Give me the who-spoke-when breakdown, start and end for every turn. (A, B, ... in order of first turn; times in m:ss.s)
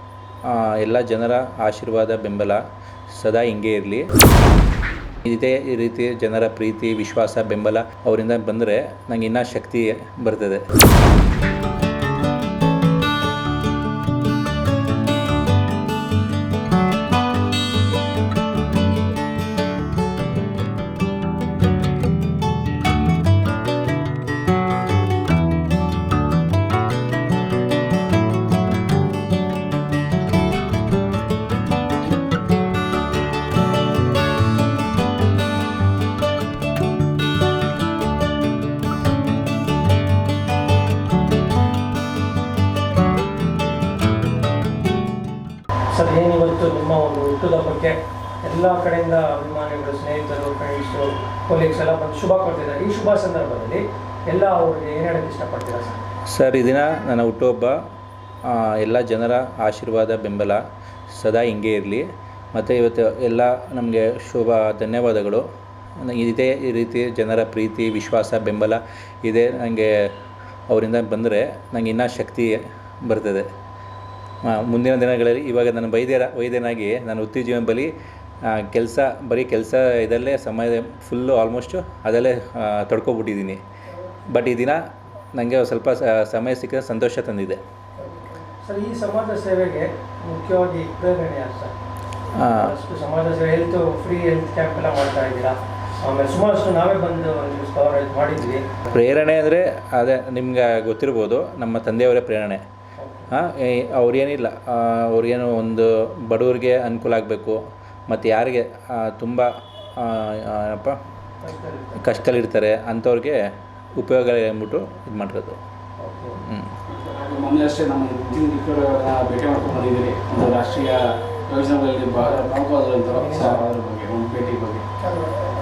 0:00.4-0:04.1 A
0:05.2-0:10.6 A
0:45.9-0:56.0 B
0:56.3-0:57.8 A
0:58.4-1:05.4 A
1:06.0-1:10.2 A
1:10.7-1:13.5 A
1:14.4-1:23.6 A
1:24.2-1:27.6 A
1:28.0-1:31.7 B
1:32.3-1:32.7 A
1:32.5-1:38.8 B
1:38.9-1:42.6 A
1:43.0-1:43.3 B
1:43.3-1:51.0 A
1:51.4-1:52.0 B
1:52.0-1:55.6 A
1:56.0-1:56.4 B
1:56.4-1:56.7 A
1:56.9-2:05.0 C
2:03.1-2:03.7 B